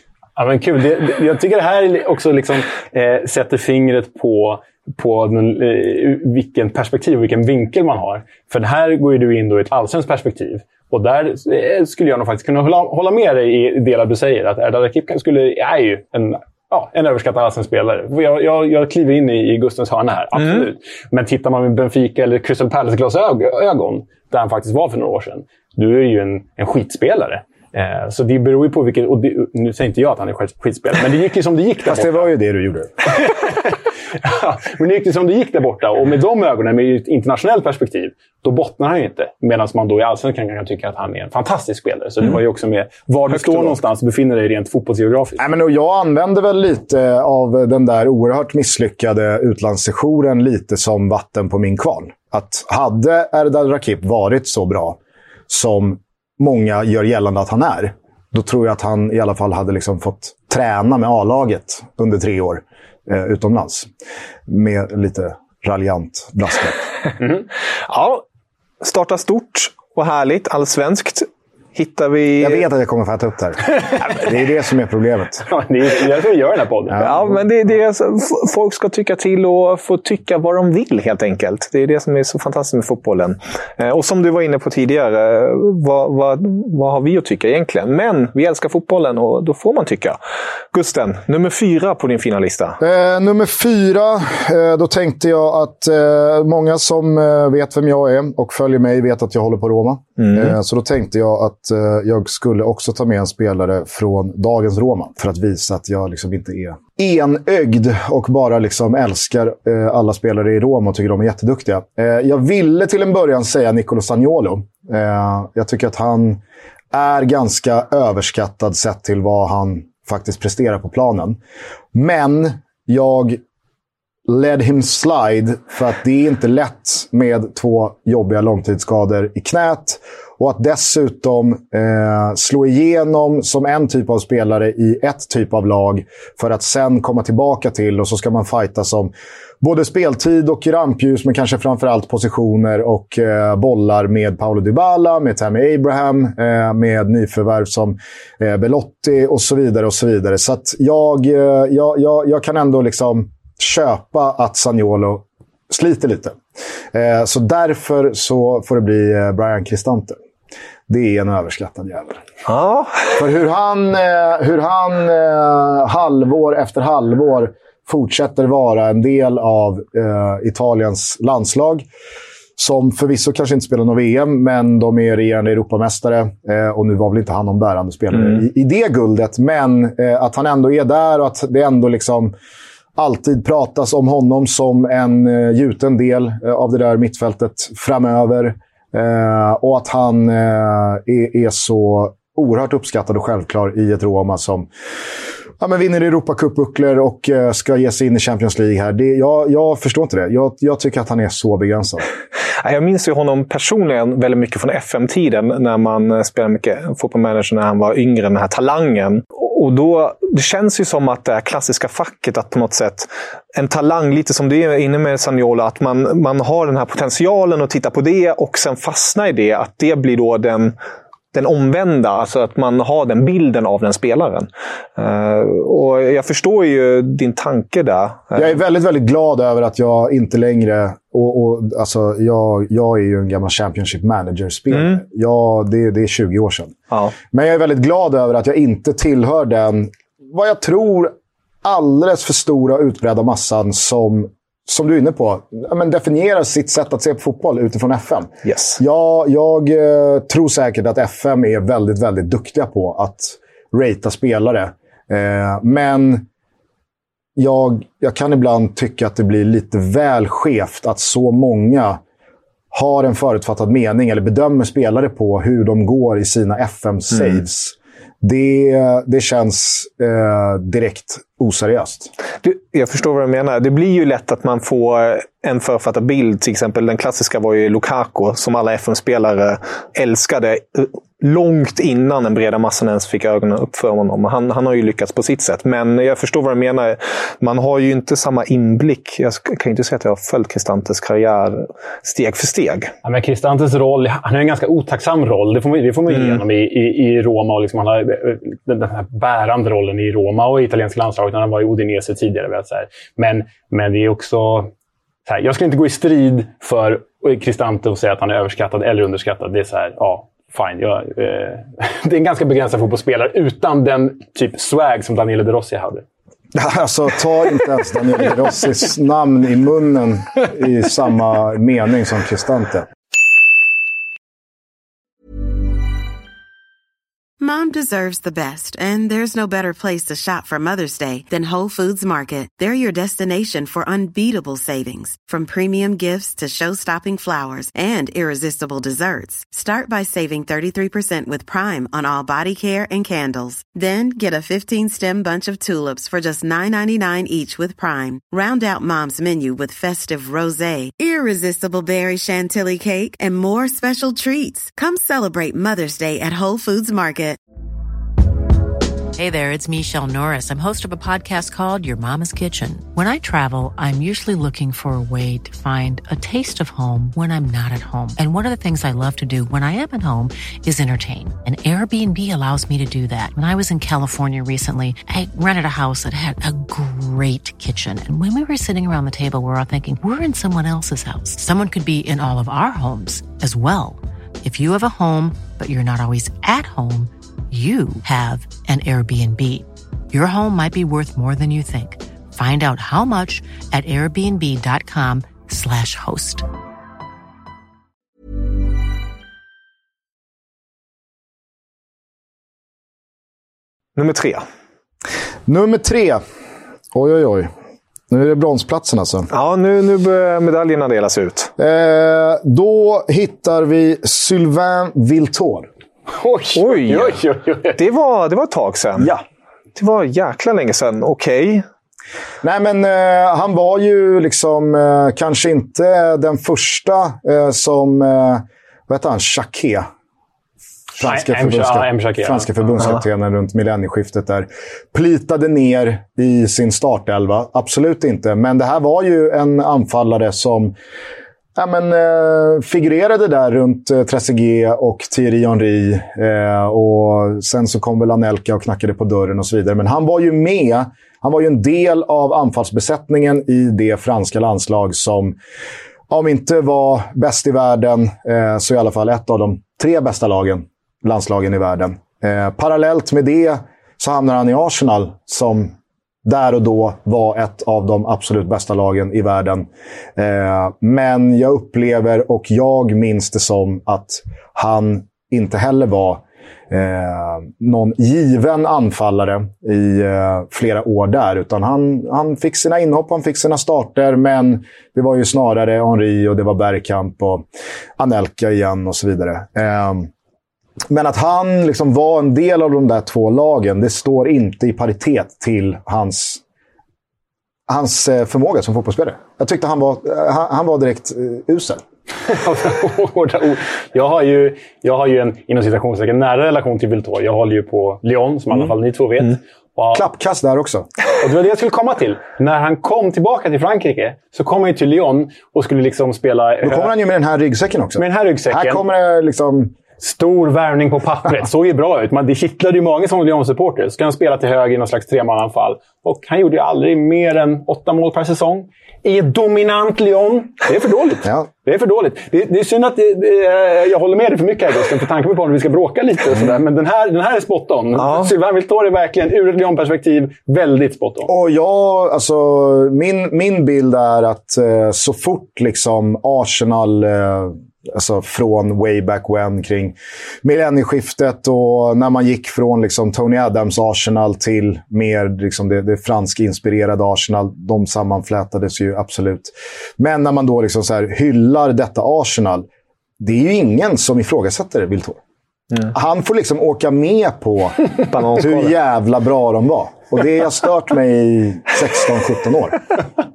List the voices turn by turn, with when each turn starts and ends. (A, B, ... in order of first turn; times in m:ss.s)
0:00.4-0:32.3 A
0:20.4-0:20.6 B
0:31.8-0:33.1 C
0:33.2-0:45.4 A
0:43.3-0:43.7 B
0:45.4-0:55.0 C
0:55.5-1:03.9 C
1:04.5-1:06.8 C
1:07.2-1:07.4 A
1:07.9-1:08.2 B
1:08.8-1:12.6 B
1:12.4-1:15.5 C
1:15.5-1:17.0 A
1:16.9-1:17.4 C
1:17.0-1:30.2 B
1:30.7-1:32.8 B
1:32.8-1:56.4 C
1:40.2-1:40.5 B
1:56.9-2:01.4 C
2:01.9-2:03.4 C
2:04.3-2:36.4 C
2:36.9-2:40.2 C
2:40.9-2:42.2 C
2:42.4-2:43.2 B
2:43.2-2:51.8 C
2:52.6-3:02.3 C
3:03.0-3:14.7 C
3:15.6-3:22.0 C
3:22.6-3:40.7 B
3:41.3-3:48.5 B
3:48.4-4:16.2 C
4:08.4-4:08.8 B
4:17.4-4:22.0 C
4:22.7-4:32.1 C
4:32.4-4:52.9 B
4:53.0-5:04.7 A
4:56.1-4:56.4 B
5:05.2-5:16.0 A
5:16.5-5:22.9 C
5:27.4-5:57.4 D
5:59.1-6:36.4 E
6:44.0-6:44.4 B
6:45.5-6:46.2 C
6:46.9-6:47.5 C
6:48.1-6:49.3 C
6:49.3-6:51.5 B
6:51.6-6:55.7 C
6:56.2-6:57.8 A
6:56.5-6:57.2 B
6:57.8-6:59.1 B
6:59.0-6:59.2 C
6:59.8-7:01.6 B
7:02.4-7:09.9 C
7:11.0-7:20.7 C
7:11.0-7:12.9 A
7:21.6-7:35.4 C
7:36.1-7:45.7 C
7:46.2-8:07.4 C
8:08.0-8:10.1 C
8:10.9-8:16.4 C
8:17.7-8:21.8 C
8:22.3-8:30.0 A
8:29.9-8:30.9 C
8:31.2-8:36.9 A
8:36.6-8:39.7 C
8:38.0-8:38.8 A
8:40.0-9:01.3 A
8:58.0-8:58.3 B
9:01.2-9:22.7 C
9:23.2-9:25.2 C
9:25.9-9:32.8 C
9:28.1-9:28.7 B